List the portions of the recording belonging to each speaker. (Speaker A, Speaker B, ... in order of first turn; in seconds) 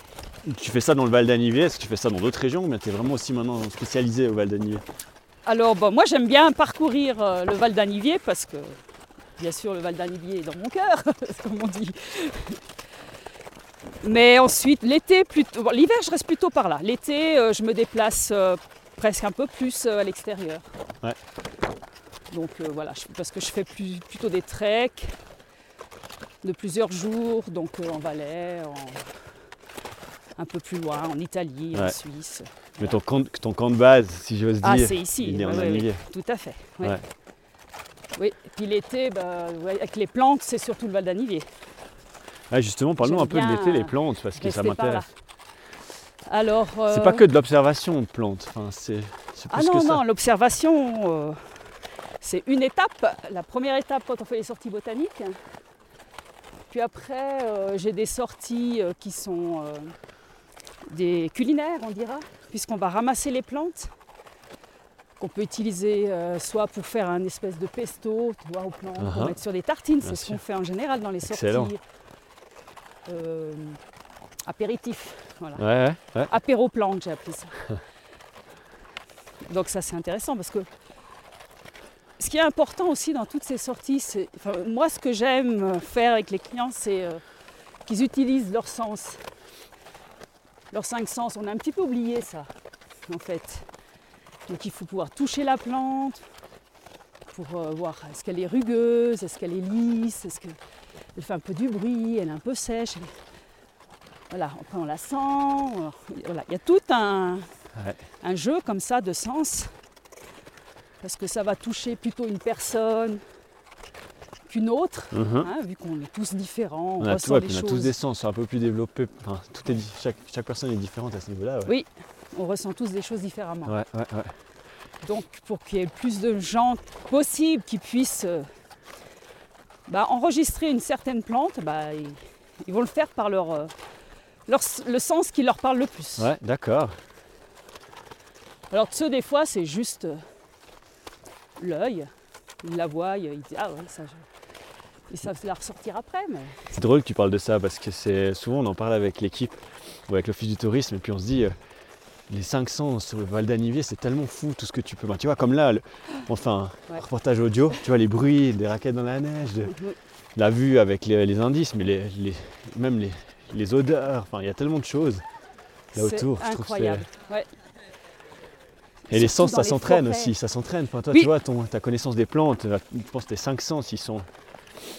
Speaker A: 0.4-4.8, 32.8-36.0, 42.5-45.1, 46.9-50.0, 69.0-69.4, 70.0-70.4, 71.2-71.7, 75.5-76.3, 107.8-108.0, 115.1-115.5, 117.0-121.7, 123.7-124.3, 136.2-137.0, 146.7-151.5, 152.3-159.8, 160.3-165.2, 165.9-167.1, 169.1-174.3
Speaker B: 5.4-8.8, 9.4-12.6, 14.0-20.6, 22.3-25.1, 26.4-29.1, 30.4-33.0, 34.6-37.0, 38.1-41.5, 43.0-45.1, 46.2-47.2, 49.5-51.5, 52.2-55.4, 56.7-59.9, 60.8-63.9, 65.2-71.8, 73.0-73.8, 74.4-75.6, 76.3-77.6, 79.4-80.7, 82.2-87.2, 87.8-89.2, 90.7-92.5, 93.1-93.7, 94.5-96.2, 97.3-100.6, 101.1-103.1, 104.3-107.5, 108.2-109.7, 111.0-113.2, 114.5-117.9, 121.7-123.7, 125.0-128.5, 129.9-133.7, 134.5-136.3, 138.7-140.2, 141.6-142.1, 142.6-144.2, 145.1-146.7, 165.9-167.5, 169.1-170.3